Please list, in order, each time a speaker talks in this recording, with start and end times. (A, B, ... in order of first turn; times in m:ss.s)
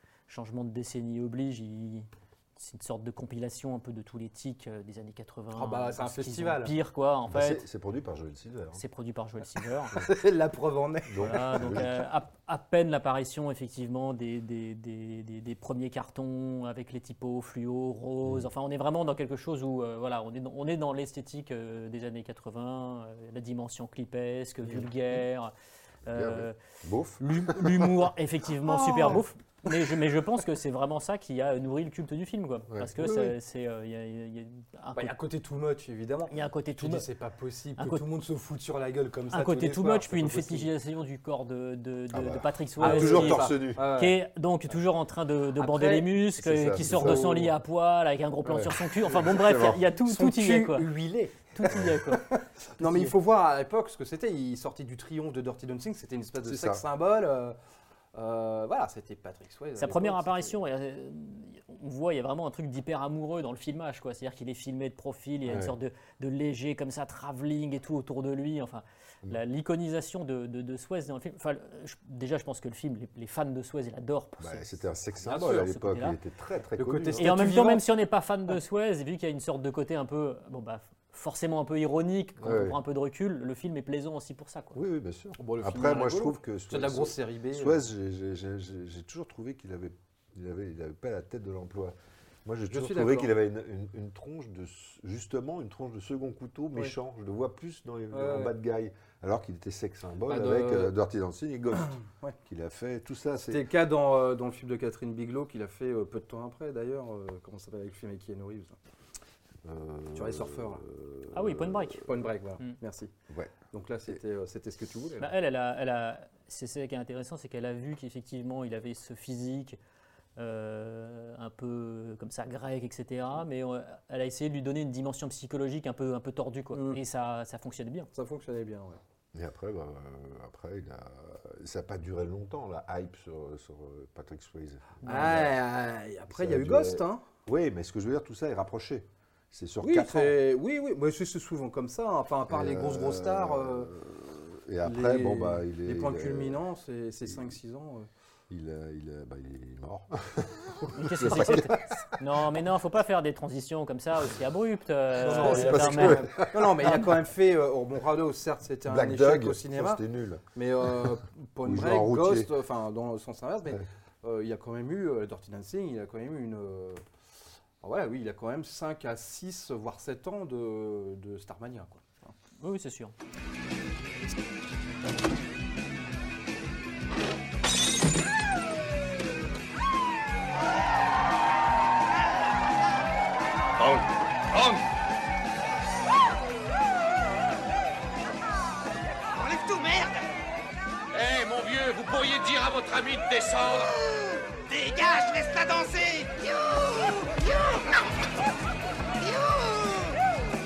0:00.3-0:07.6 A
0:05.5-0:06.8 B
0:07.3-0:08.8 C
0:08.7-0:09.9 A
0:10.0-0:11.9 B
0:11.0-0:12.0 C
0:11.2-0:25.5 A
0:24.6-0:24.9 C
0:26.0-0:28.1 C
0:26.1-0:26.6 A
0:27.2-0:35.1 A
0:28.7-0:29.2 B
0:32.7-0:33.3 C
0:35.0-0:40.7 B
0:36.3-0:37.0 A
0:37.8-0:38.0 A
0:39.3-0:50.9 A
0:42.1-0:43.9 C
0:42.8-0:44.2 B
0:45.6-0:46.2 B
0:46.4-0:47.5 C
0:46.8-0:47.5 B
0:48.4-0:49.8 C
0:50.0-0:57.6 B
0:51.5-0:52.2 A
0:52.8-0:53.1 A
0:56.4-0:56.8 C
0:58.1-1:00.5 B
0:59.8-1:14.8 A
1:05.4-1:05.7 C
1:14.4-1:17.4 C
1:15.3-1:15.6 B
1:15.3-1:16.2 A
1:16.8-1:17.9 B
1:17.2-1:24.8 A
1:22.4-1:22.8 C
1:24.7-1:41.9 C
1:25.4-1:27.8 B
1:32.7-1:33.3 B
1:38.1-1:38.5 B
1:40.3-1:40.9 B
1:42.1-1:42.4 B
1:42.4-1:43.7 C
1:43.5-1:48.8 B
1:49.6-1:52.0 C
1:50.1-1:50.8 B
1:51.3-1:52.0 A
1:52.0-1:53.1 B
1:53.3-1:54.2 C
1:53.7-1:55.3 B
1:55.2-1:59.8 A
2:00.4-2:08.1 A
2:06.7-2:07.0 B
2:08.1-2:09.0 B
2:09.3-2:15.6 C
2:15.0-2:17.2 B
2:15.0-2:15.3 A
2:16.3-2:20.4 C
2:19.8-2:23.9 B
2:22.5-2:26.6 C
2:24.8-2:28.1 B
2:27.2-2:27.6 C
2:28.5-2:32.0 C
2:31.0-2:36.3 A
2:31.2-2:31.6 B
2:35.1-2:40.0 B
2:35.2-2:37.1 C
2:38.8-2:42.5 C
2:40.5-2:47.0 B
2:47.8-2:52.3 B
2:52.6-2:53.1 A
3:03.8-3:04.8 D
3:09.3-3:10.2 E
3:11.1-3:13.9 D
3:13.7-3:17.9 E
3:19.2-3:20.2 E